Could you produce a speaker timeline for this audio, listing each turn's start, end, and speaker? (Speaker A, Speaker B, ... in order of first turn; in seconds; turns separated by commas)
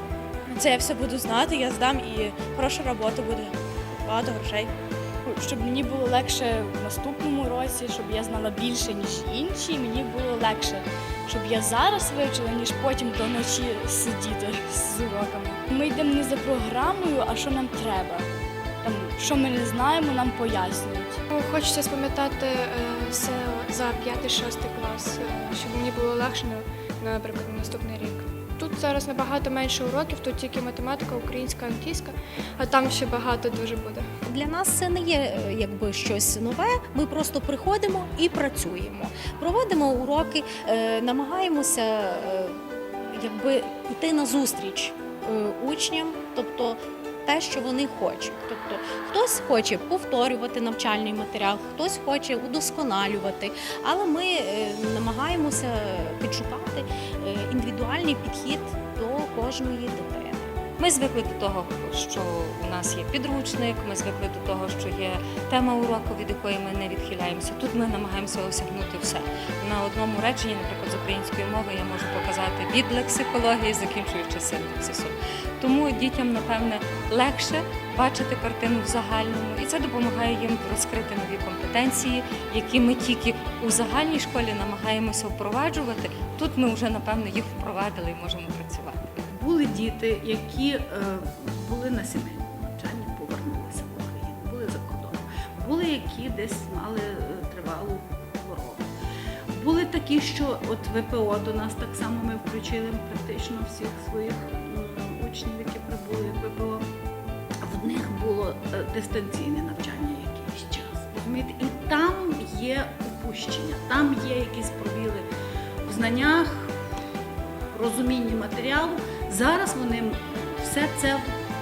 Speaker A: 0.5-3.5, Speaker A: 4.0-4.7, Speaker B: 5.2-18.3, Speaker B: 18.8-21.2, Speaker C: 21.3-34.1, Speaker D: 34.2-60.6, Speaker E: 60.8-89.2, Speaker F: 89.3-98.9, Speaker F: 99.5-106.9, Speaker F: 107.6-115.2, Speaker F: 115.8-116.7, Speaker F: 117.7-121.3